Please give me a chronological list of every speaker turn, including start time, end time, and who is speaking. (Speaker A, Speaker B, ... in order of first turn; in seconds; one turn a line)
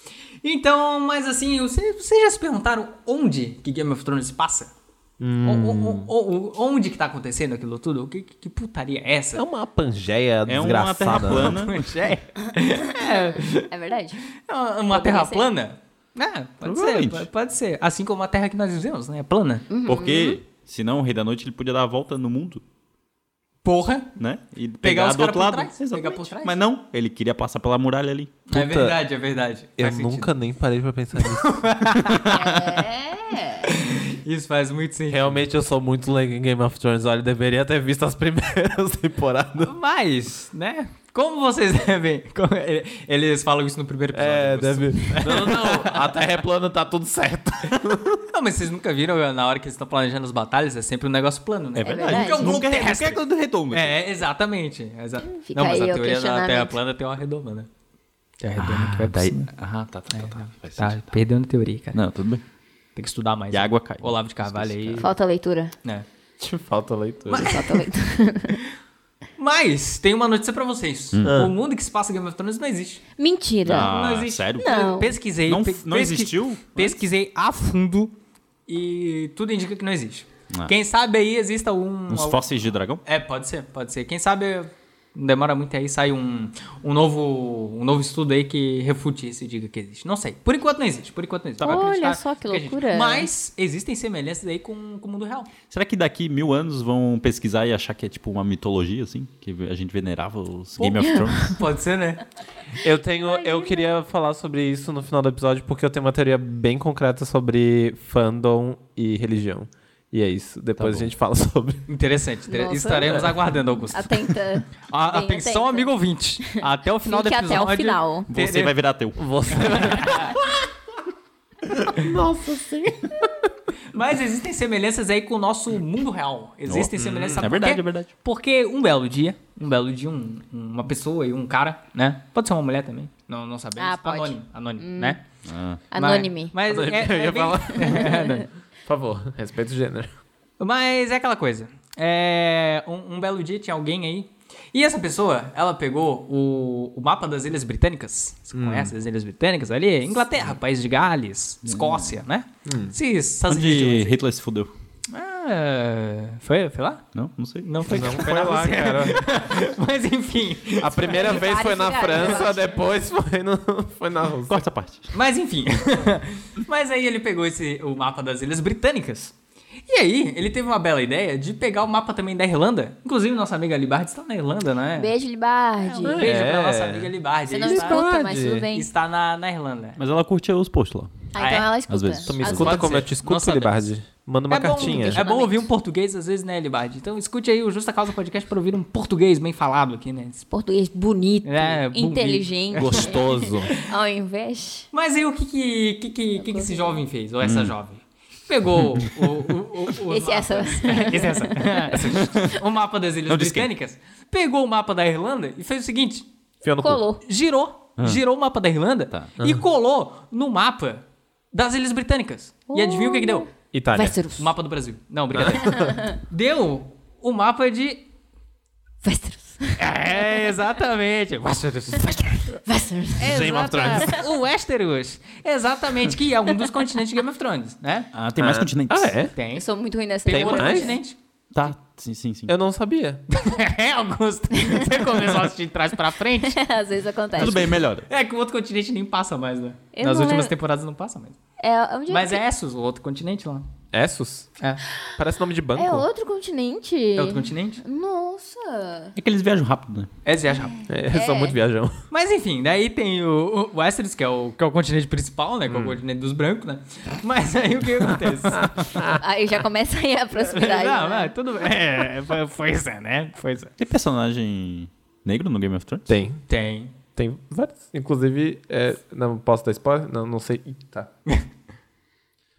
Speaker A: 0.4-4.7
Speaker B: 5.2-6.1
Speaker A: 5.4-9.4
Speaker B: 9.3-11.6
Speaker C: 10.5-11.9
Speaker A: 11.3-13.7
Speaker D: 12.9-14.2
Speaker A: 14.3-19.7
Speaker D: 14.9-15.5
Speaker C: 16.6-17.3
Speaker D: 19.7-20.4
Speaker C: 19.9-22.6
Speaker A: 23.6-24.1
Speaker C: 24.2-28.4
Speaker A: 24.8-26.6
Speaker A: 28.5-30.3
Speaker B: 28.5-29.0
Speaker B: 29.8-31.6
Speaker A: 31.2-32.6
Speaker C: 32.1-32.7
Speaker D: 32.2-33.6
Speaker A: 33.5-35.4
Speaker B: 35.1-39.7
Speaker A: 39.6-46.1
Speaker B: 44.1-48.2
Speaker A: 48.3-57.7
Speaker C: 51.8-54.0
Speaker D: 51.8-52.6
Speaker D: 55.3-56.8
Speaker A: 58.4-59.5
Speaker C: 58.6-61.1
Speaker A: 60.1-62.0
Speaker C: 61.9-62.4
Speaker A: 63.0-65.1
Speaker C: 63.5-65.1
Speaker D: 65.0-65.7
Speaker B: 66.4-67.6
Speaker A: 67.2-67.9
Speaker D: 67.4-68.6
Speaker A: 69.4-73.0
Speaker B: 71.2-71.5
Speaker D: 73.2-73.9
Speaker C: 73.6-74.9
Speaker A: 73.7-78.1
Speaker D: 74.6-75.2
Speaker C: 75.5-77.0
Speaker A: 78.7-82.4
Speaker C: 82.1-83.0
Speaker A: 83.0-95.5
Speaker D: 91.6-93.3
Speaker C: 95.7-101.6
Speaker A: 100.8-102.2
Speaker B: 102.8-111.8
Speaker D: 103.3-103.8
Speaker C: 110.8-111.1
Speaker A: 111.9-118.8
Speaker D: 112.5-115.9
Speaker D: 117.0-118.3
Speaker C: 118.3-120.0
Speaker B: 119.2-120.6
Speaker A: 119.5-120.4
Speaker B: 121.8-123.5
Speaker A: 123.9-135.2
Speaker C: 126.7-128.1
Speaker D: 133.8-135.2
Speaker C: 135.4-135.8
Speaker D: 135.9-136.5
Speaker A: 135.9-138.5
Speaker B: 136.7-138.2
Speaker D: 137.8-138.4
Speaker B: 138.8-140.1
Speaker A: 140.6-154.2
Speaker B: 148.5-148.9
Speaker C: 151.6-152.2
Speaker B: 152.7-152.9
Speaker C: 153.5-154.7
Speaker A: 155.1-157.0
Speaker C: 157.1-158.1
Speaker A: 157.6-161.5
Speaker B: 157.8-159.2
Speaker B: 160.8-164.6
Speaker D: 161.1-162.8
Speaker C: 164.5-165.1
Speaker A: 165.1-169.3
Speaker A: 169.9-175.1
Speaker D: 175.0-176.3
Speaker A: 175.8-178.0
Speaker B: 176.0-178.7
Speaker D: 177.5-178.9
Speaker A: 178.7-180.0
Speaker C: 180.0-181.3
Speaker D: 181.3-182.9
Speaker A: 181.3-181.8
Speaker C: 181.9-182.9
Speaker B: 182.2-185.2
Speaker A: 182.4-183.8
Speaker A: 184.5-190.5
Speaker D: 184.7-185.6
Speaker D: 190.5-194.9
Speaker A: 191.4-193.8
Speaker B: 192.7-193.7
Speaker A: 194.9-206.3
Speaker D: 196.4-197.0
Speaker C: 197.4-197.7
Speaker D: 200.1-201.9
Speaker C: 202.1-202.5
Speaker C: 203.3-203.7
Speaker B: 206.6-207.0
Speaker D: 206.8-207.2
Speaker A: 207.2-213.5
Speaker D: 212.7-214.5
Speaker B: 213.7-214.2
Speaker A: 214.3-218.0
Speaker B: 215.3-216.0
Speaker D: 219.0-219.8
Speaker A: 219.8-222.6
Speaker D: 222.7-224.2
Speaker A: 223.2-228.1
Speaker B: 223.2-224.2
Speaker C: 228.1-229.2
Speaker B: 228.3-229.3
Speaker A: 229.3-229.7
Speaker D: 229.5-231.0
Speaker A: 230.2-231.2
Speaker B: 230.3-231.0
Speaker C: 231.5-232.5
Speaker B: 232.5-233.2
Speaker A: 233.3-236.6
Speaker D: 236.4-237.8
Speaker C: 237.3-238.1
Speaker A: 238.1-241.4
Speaker D: 239.9-240.5
Speaker D: 241.6-242.4
Speaker A: 242.1-243.7
Speaker B: 243.9-244.5
Speaker B: 245.2-246.1
Speaker D: 245.8-249.1
Speaker A: 247.1-247.8
Speaker C: 249.2-250.1
Speaker A: 250.2-250.8
Speaker D: 250.8-251.6
Speaker B: 250.9-252.0
Speaker A: 252.1-258.8
Speaker C: 255.7-255.9
Speaker B: 258.5-259.2
Speaker D: 259.0-261.3
Speaker A: 260.4-263.7
Speaker C: 263.8-266.1
Speaker B: 266.1-266.4
Speaker A: 266.5-266.9
Speaker B: 267.1-271.1